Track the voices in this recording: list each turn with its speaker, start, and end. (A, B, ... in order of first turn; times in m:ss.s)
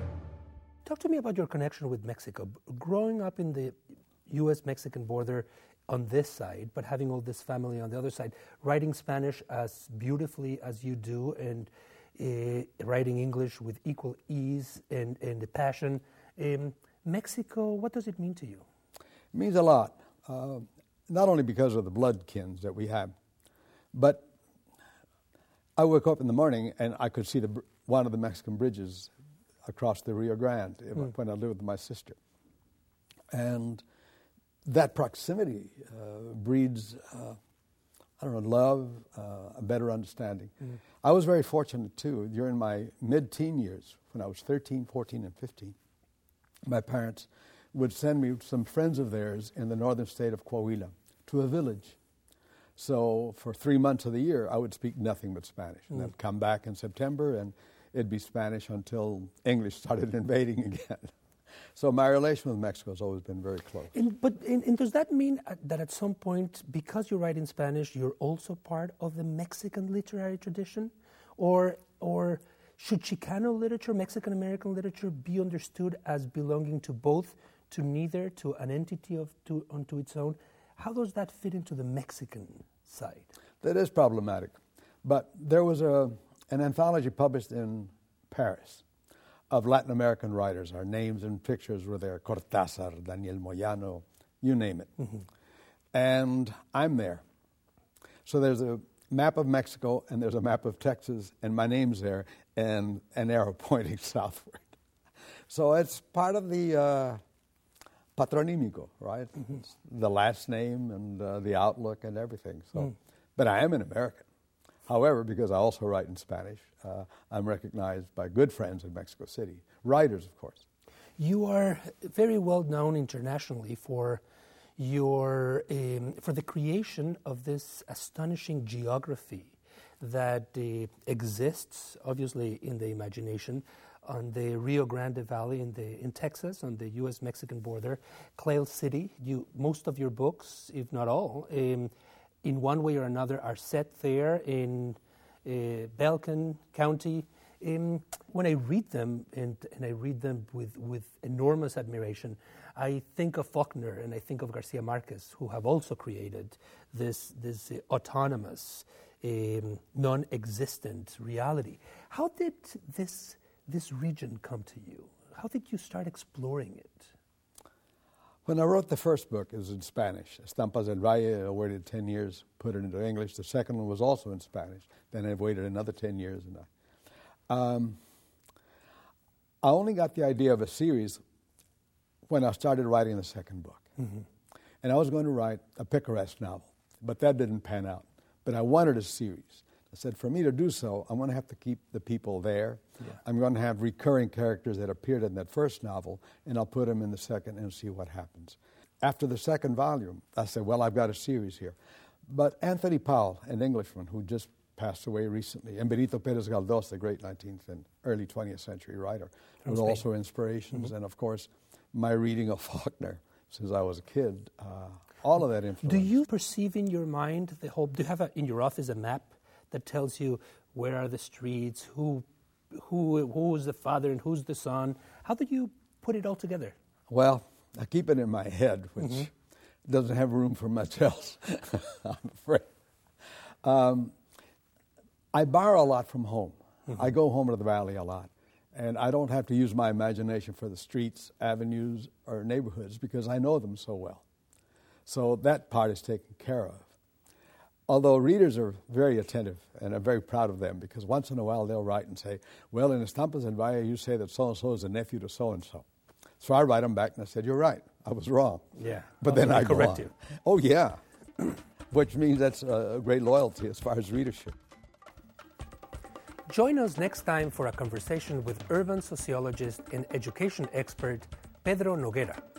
0:00.8-0:03.8 A
0:04.3-0:18.6 A
0:19.3-0:23.1 B
0:23.9-0:24.3 B
0:25.8-0:29.1 B
0:29.6-0:32.2 B
0:33.3-0:33.8 B
0:34.6-0:37.4 B
0:38.2-0:45.8 B
0:46.7-0:52.0 B
0:52.8-1:01.1 B
1:01.8-1:03.9 B
1:03.9-1:23.3 A
1:23.6-1:28.8 B
1:29.5-1:35.1 B
1:35.9-1:37.2 B
1:38.2-1:44.7 B
1:45.5-1:47.2 B
1:48.2-1:54.3 B
1:54.9-2:00.6 B
2:01.2-2:04.2 A
2:04.8-2:21.9 A
2:22.4-2:47.1 A
2:48.4-2:56.7 B
2:57.5-2:58.0 B
2:59.6-3:01.2 B
3:02.3-3:03.9 B
3:04.8-3:21.8 B
3:22.3-3:36.2 B
3:29.7-3:30.0 A
3:35.9-3:46.8 A
3:47.1-3:49.3 B
3:49.9-3:52.7 B
3:53.6-3:54.1 B
3:55.3-4:04.2 B
4:05.1-4:06.9 B
4:07.9-4:15.8 B
4:16.4-4:21.0 B
4:18.8-4:20.1 A
4:21.9-4:24.6 B
4:26.5-4:32.4 A